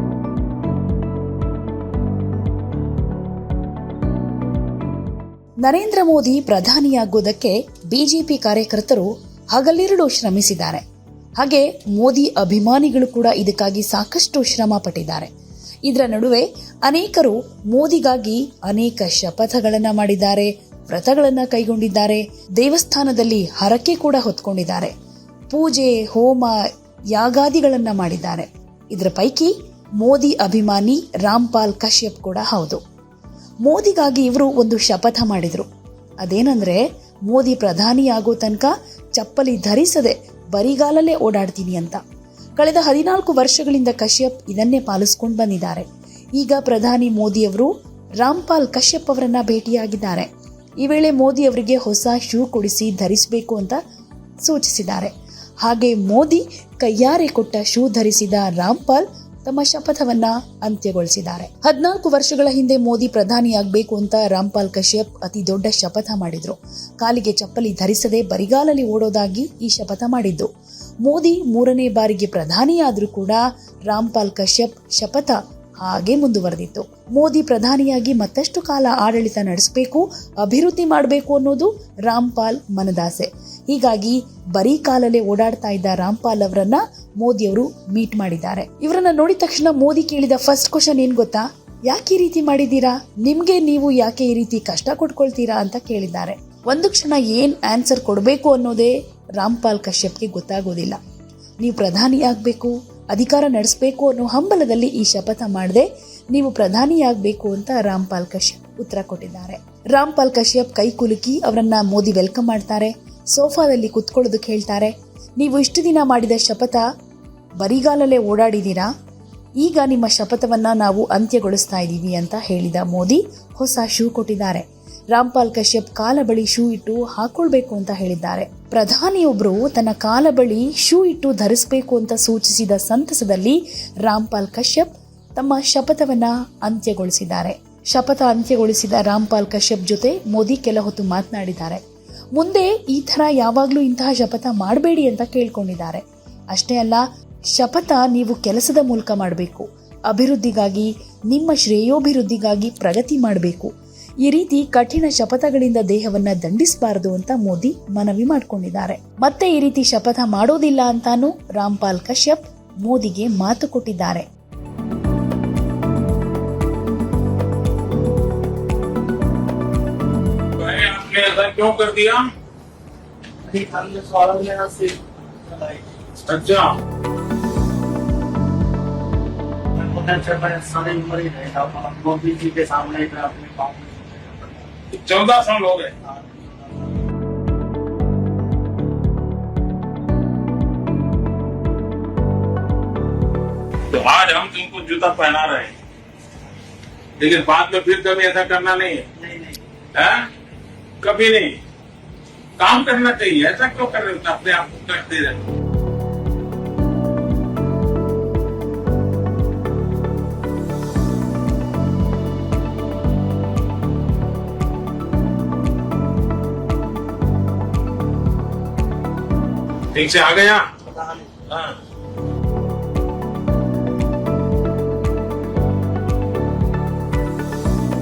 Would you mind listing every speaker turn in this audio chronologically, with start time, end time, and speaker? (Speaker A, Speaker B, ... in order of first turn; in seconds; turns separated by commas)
Speaker A: 5.6-10.8, Speaker A: 11.4-15.3, Speaker A: 15.9-24.9, Speaker A: 25.5-26.6, Speaker A: 27.1-32.8, Speaker A: 33.6-35.7, Speaker A: 36.2-42.0, Speaker A: 42.6-45.9, Speaker A: 46.4-50.3, Speaker A: 50.8-53.8, Speaker A: 54.5-70.5, Speaker A: 71.0-101.0, Speaker A: 101.6-116.8, Speaker A: 117.6-118.9, Speaker A: 119.6-141.8, Speaker A: 142.3-147.0, Speaker A: 147.6-153.7, Speaker A: 154.2-164.2, Speaker B: 170.6-172.3, Speaker C: 173.5-175.9, Speaker B: 176.2-176.7, Speaker C: 179.8-184.7, Speaker B: 184.9-185.9, Speaker C: 186.0-187.0, Speaker B: 193.9-195.7, Speaker B: 197.2-199.0, Speaker C: 199.2-199.6, Speaker B: 199.9-200.3, Speaker B: 201.0-201.5, Speaker B: 202.6-205.4, Speaker B: 219.9-220.7, Speaker C: 220.8-221.3, Speaker B: 221.4-221.8